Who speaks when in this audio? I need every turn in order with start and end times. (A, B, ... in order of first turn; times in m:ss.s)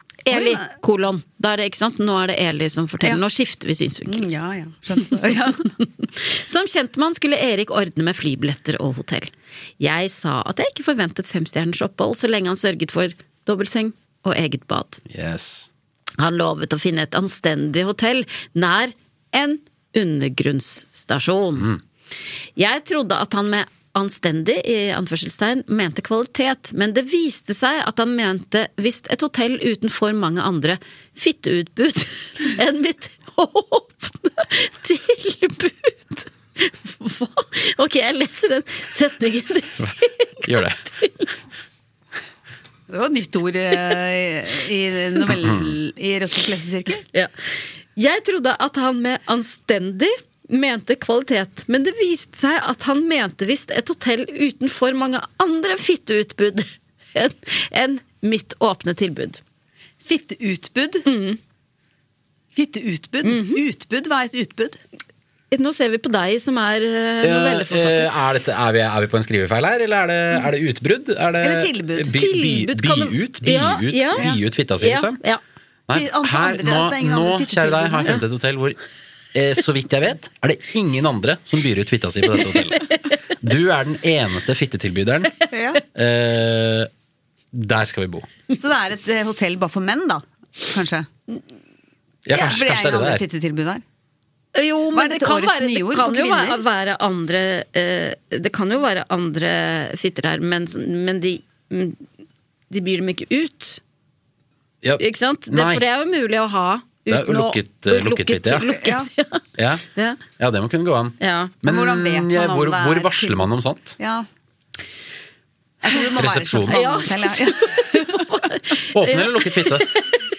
0:00.2-0:04.3 A
0:00.3-0:00.7 B
0:04.1-0:05.7 B
0:06.0-0:15.0 A
0:15.1-0:15.7 C
0:16.2-0:21.7 A
0:22.6-0:41.3 A
0:39.8-0:40.8 C
0:42.9-0:47.0 B
0:45.4-0:45.7 C
0:47.9-0:59.4 A
1:00.0-1:01.1 B
1:01.0-1:01.4 A
1:02.5-1:04.8 B
1:03.2-1:03.6 A
1:05.5-1:08.1 A
1:07.2-1:15.2 C
1:11.4-1:12.2 B
1:12.1-1:14.3 A
1:14.8-1:15.4 A
1:15.9-1:18.8 C
1:15.9-1:18.2 B
1:19.3-1:26.9 C
1:25.5-1:25.8 B
1:27.5-1:28.3 C
1:28.6-1:31.1 B
1:32.2-1:33.2 C
1:32.3-1:33.8 B
1:34.5-1:42.0 A
1:34.9-1:36.6 B
1:42.7-1:43.8 A
1:44.8-1:45.8 C
1:45.0-1:49.4 A
1:47.1-1:48.8 C
1:48.6-1:49.1 B
1:49.6-1:54.0 C
1:49.9-1:50.2 A
1:51.2-1:51.6 A
1:51.6-1:54.2 B
1:55.8-1:58.3 B
1:56.1-1:56.8 C
1:56.7-2:00.2 A
1:58.9-1:59.9 C